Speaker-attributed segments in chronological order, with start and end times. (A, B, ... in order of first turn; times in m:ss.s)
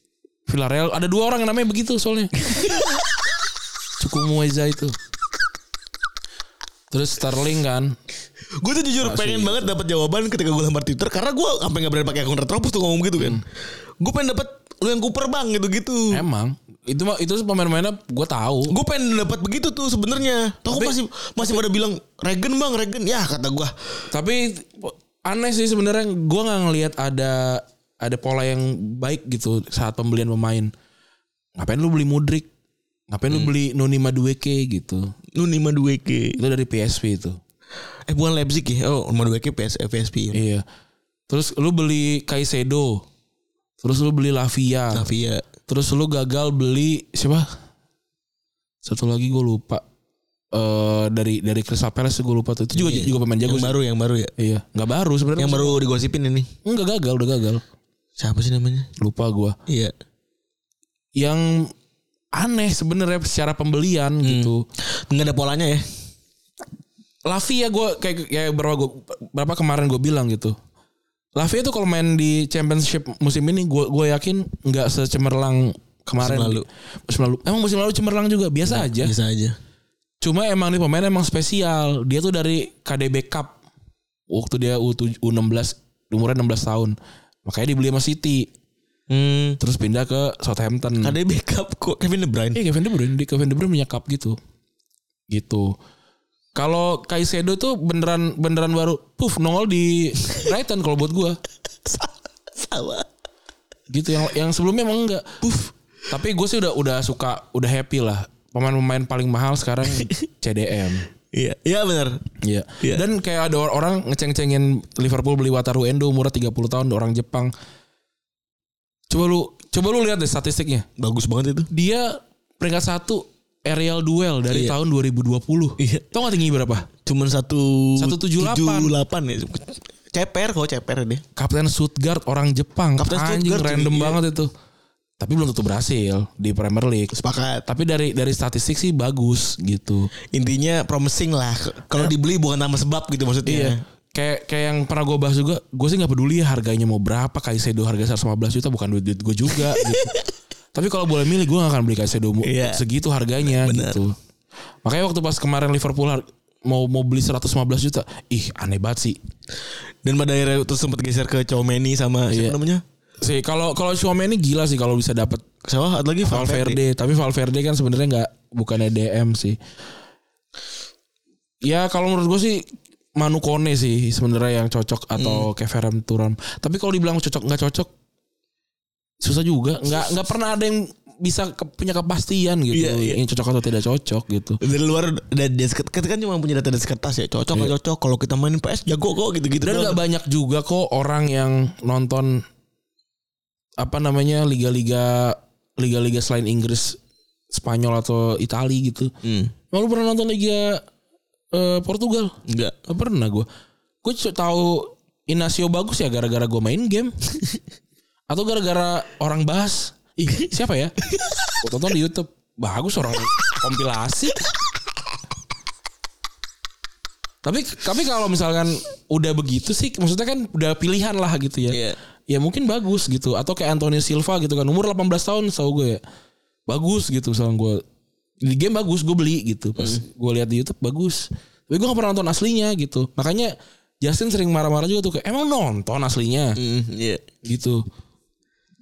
0:00.5-0:02.3 A
0:02.4-0:03.0 B
0:04.0-0:05.0 A
0:06.9-0:07.9 A
0:08.6-0:13.4 B
0:09.0-0:09.7 A
0:14.0-0:16.2 B
0:16.1-0:18.7 A
0:18.7-0:23.7 B
0:24.1-0:30.7 A
0:31.6-0:32.5 A
0:33.1-0:35.1 A
0:35.3-0:36.4 B
0:36.4-0:37.4 A
0:38.1-0:40.4 B
0:40.3-0:40.6 A
0:41.3-0:43.0 A
0:43.8-0:45.1 A
0:44.9-0:45.5 B
0:45.7-0:47.4 A
0:48.8-0:49.8 A
0:50.5-0:53.8 A
0:52.7-0:54.3 B
0:54.4-0:55.8 A
0:55.4-0:56.5 B
0:56.6-0:57.6 A
0:58.2-0:58.9 B
0:59.0-0:59.6 A
0:59.7-0:59.9 B
1:01.2-1:01.7 A
1:02.3-1:04.6 A
1:04.2-1:05.8 B
1:07.2-1:10.6 A
1:11.4-1:19.1 A
1:16.2-1:16.6 B
1:18.6-1:19.6 B
1:20.2-1:23.6 A
1:24.3-1:28.5 A
1:29.1-1:29.6 B
1:29.6-1:31.2 A
1:31.0-1:32.6 B
1:32.5-1:34.4 A
1:35.3-1:35.7 A
1:36.5-1:41.4 A
1:41.8-1:43.1 B
1:43.9-1:45.4 A
1:45.4-1:45.7 B
1:46.1-1:51.1 A
1:49.8-1:50.1 B
1:51.3-1:52.2 B
1:52.4-1:57.5 A
1:59.1-2:00.9 A
2:01.0-2:01.7 B
2:01.7-2:06.9 A
2:04.5-2:04.8 B
2:05.8-2:06.1 B
2:07.0-2:11.2 B
2:08.0-2:08.9 A
2:11.4-2:14.5 A
2:13.0-2:14.2 B
2:15.2-2:17.1 A
2:17.1-2:17.6 B
2:17.6-2:20.1 A
2:20.3-2:23.8 B
2:23.4-2:30.1 A
2:29.5-2:30.2 B
2:30.7-2:34.1 A
2:32.4-2:32.8 B
2:33.4-2:34.0 B
2:34.8-2:39.2 A
2:40.0-2:42.8 B
2:42.3-2:42.6 A
2:43.2-2:45.4 A
2:45.6-2:46.8 B
2:46.3-2:49.6 A
2:51.6-2:52.6 A
2:53.2-2:57.9 A
2:55.2-2:55.5 B
2:59.2-3:04.6 A
3:02.7-3:03.2 B
3:04.6-3:10.0 B
3:09.6-3:12.4 A
3:13.8-3:17.0 A
3:17.5-3:19.1 A
3:19.2-3:19.5 B
3:19.7-3:20.8 A
3:21.5-3:22.3 A
3:22.5-3:22.8 B
3:22.9-3:23.4 A
3:24.0-3:27.1 A
3:28.3-3:31.0 A
3:31.6-3:34.4 A
3:37.4-3:46.0 A
3:41.7-3:42.0 B
3:46.7-3:47.8 A
3:48.4-3:56.6 A
3:49.8-3:50.0 B
3:56.6-3:57.2 B
3:57.4-3:57.8 A